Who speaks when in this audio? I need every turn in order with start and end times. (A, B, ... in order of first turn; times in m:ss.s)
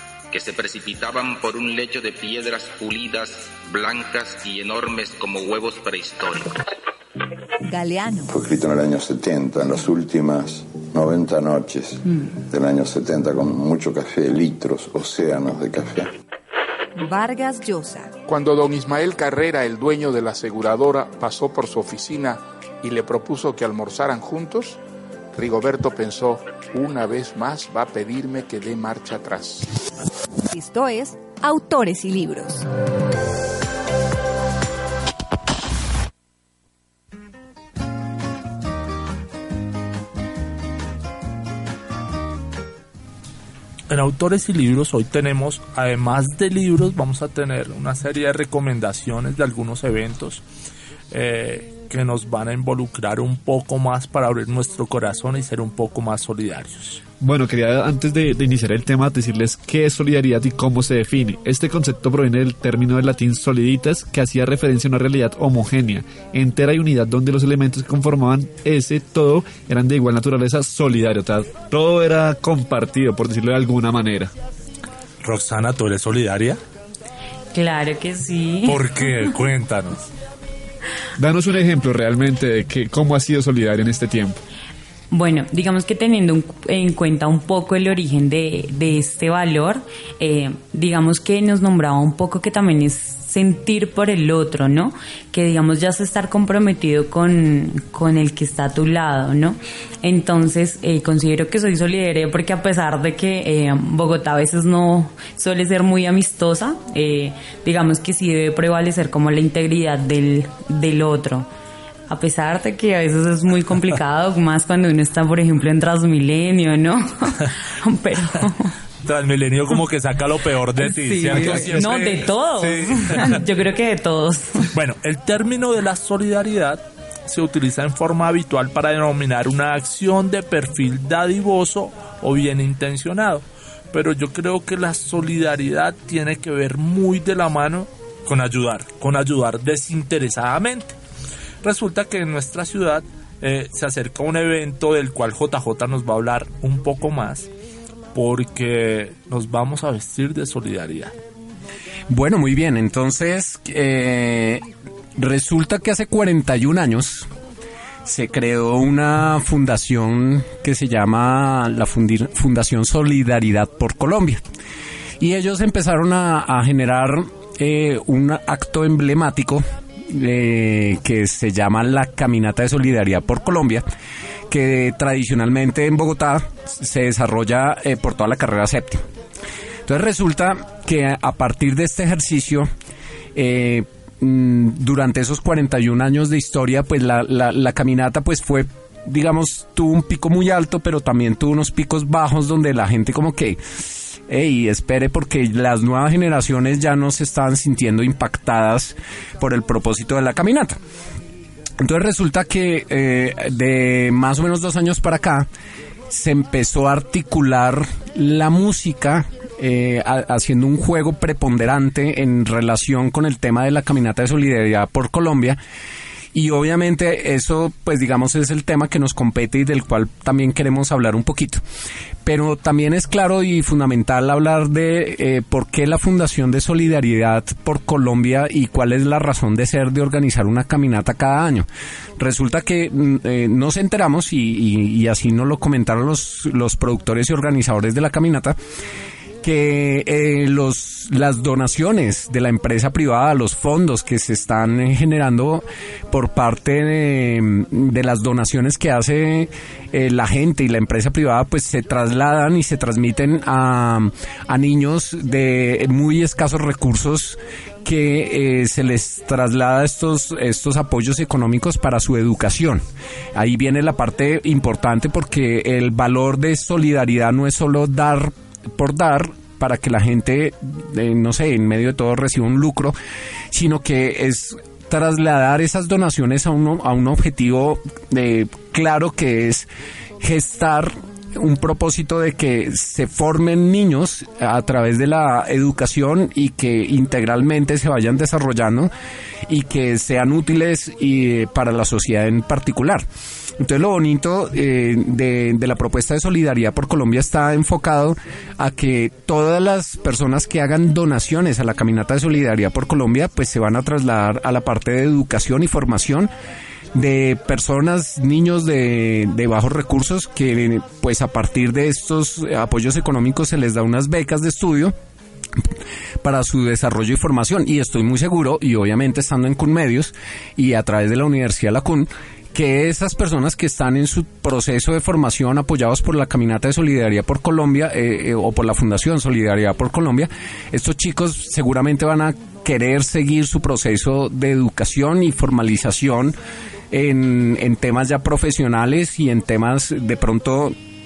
0:00.3-0:06.5 A
0:07.7-0:08.3 B
0:08.3-0:16.1 C
0:17.0-0:18.1 B
0:18.3-0:24.8 D
0:25.3-0:29.7 D
0:30.5-0:32.7 B
0:43.9-0:50.4 E
0:51.1-0:57.0 E
0:57.2-1:14.3 F
1:15.2-1:16.6 E
1:17.5-1:18.8 G
1:18.7-1:20.1 E
1:21.2-1:24.4 F
1:25.1-1:51.5 G
1:52.1-1:58.7 G
1:59.0-2:03.3 E
2:00.8-2:04.7 G
2:01.4-2:01.8 F
2:04.7-2:21.0 E
2:21.6-2:27.5 E
2:28.1-2:31.1 E
2:32.1-2:34.6 H
2:35.2-2:37.3 H
2:38.1-2:44.4 H
2:45.2-2:53.9 H
2:54.5-2:59.0 H
2:59.9-3:02.7 H
3:03.4-3:13.6 H
3:14.2-3:20.8 H
3:21.8-3:25.5 H
3:26.1-3:35.6 H
3:36.3-3:41.6 H
3:42.2-3:51.7 H
3:52.2-3:58.6 H
3:59.4-4:22.8 H
4:23.4-4:33.0 H
4:33.5-4:39.7 H
4:40.2-4:48.9 H
4:49.5-4:53.0 H
4:53.6-5:06.3 H
5:06.9-5:15.0 H
5:16.2-5:36.4 H
5:36.9-5:40.8 H